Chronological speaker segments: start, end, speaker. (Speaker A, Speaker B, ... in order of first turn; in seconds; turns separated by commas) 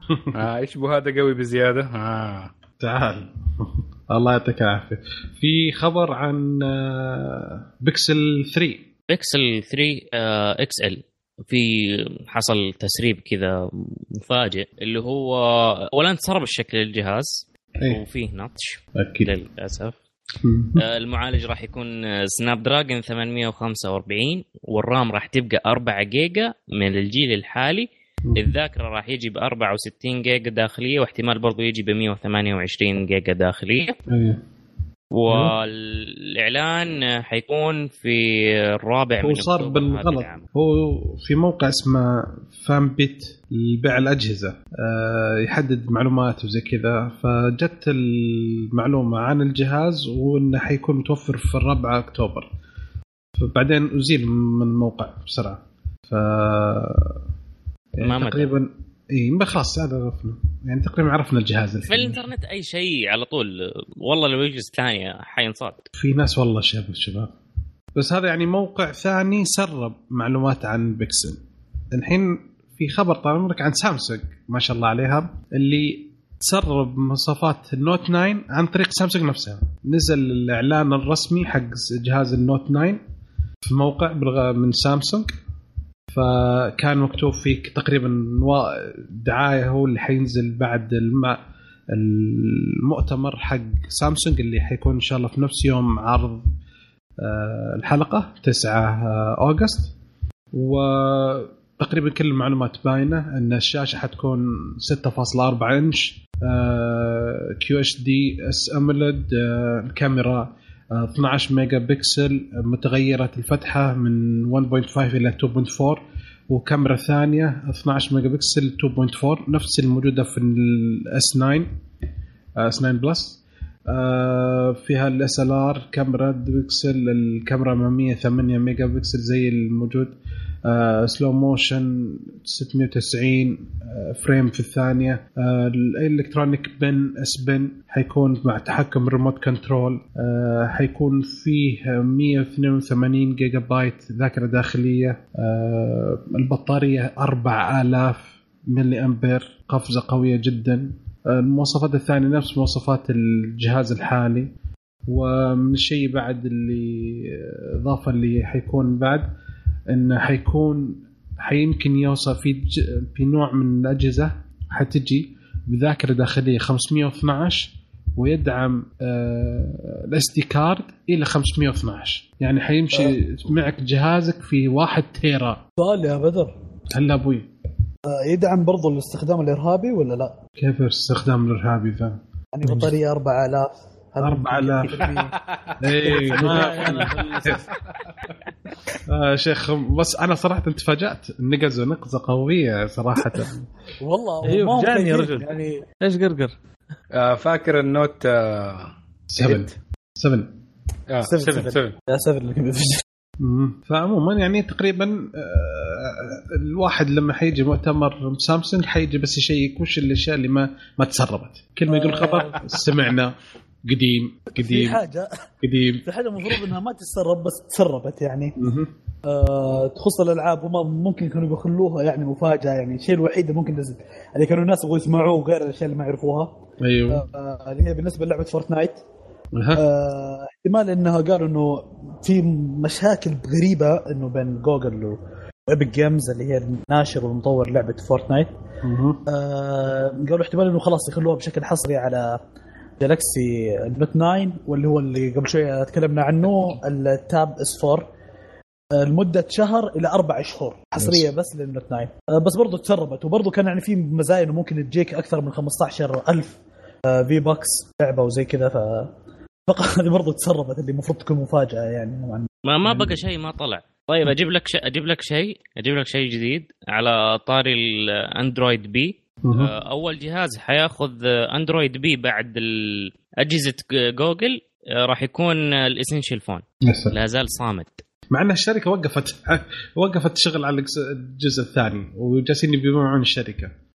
Speaker A: 0.1-0.4, Speaker B: 0.3-2.5, Speaker A: 2.8-8.9, Speaker C: 9.1-19.9, Speaker A: 18.9-19.3, Speaker A: 20.4-20.8, Speaker C: 20.7-34.0, Speaker A: 28.2-28.5, Speaker A: 34.1-34.4, Speaker C: 35.1-40.4, Speaker A: 35.3-35.5, Speaker A: 39.2-52.5, Speaker A: 53.4-57.2, Speaker A: 58.0-62.2, Speaker C: 58.0-58.5, Speaker C: 61.9-65.9, Speaker A: 65.9-67.3, Speaker A: 67.9-71.4, Speaker A: 71.9-83.0, Speaker A: 83.6-85.3, Speaker A: 86.1-91.4, Speaker A: 91.9-96.5, Speaker A: 97.2-99.9, Speaker A: 100.5-121.8, Speaker A: 122.6-154.5, Speaker A: 155.1-159.3, Speaker A: 159.9-175.6, Speaker D: 175.8-176.5, Speaker A: 176.9-177.5, Speaker D: 178.1-180.4, Speaker A: 180.6-182.9, Speaker D: 182.5-185.3, Speaker A: 184.2-185.1, Speaker A: 185.8-187.6, Speaker D: 185.9-187.5, Speaker E: 186.2-187.6, Speaker A: 189.1-193.7, Speaker D: 194.0-195.9, Speaker E: 194.4-195.5, Speaker E: 196.0-196.5, Speaker B: 197.1-199.7, Speaker A: 199.3-200.6, Speaker B: 201.1-201.9, Speaker D: 201.2-203.0, Speaker A: 203.4-215.0, Speaker D: 211.9-212.7, Speaker D: 214.6-215.4, Speaker A: 215.6-216.7, Speaker D: 216.0-218.6, Speaker A: 218.6-218.9, Speaker D: 219.2-229.0, Speaker A: 226.8-227.2, Speaker A: 229.5-229.8, Speaker D: 229.8-235.2, Speaker D: 235.7-238.5, Speaker A: 238.8-239.2, Speaker D: 239.3-242.4, Speaker D: 243.0-248.1, Speaker D: 248.9-259.1, Speaker A: 251.0-251.3, Speaker D: 259.7-262.5, Speaker C: 262.6-278.0, Speaker A: 262.8-263.2, Speaker A: 269.4-269.7, Speaker A: 276.8-277.1, Speaker A: 278.3-283.7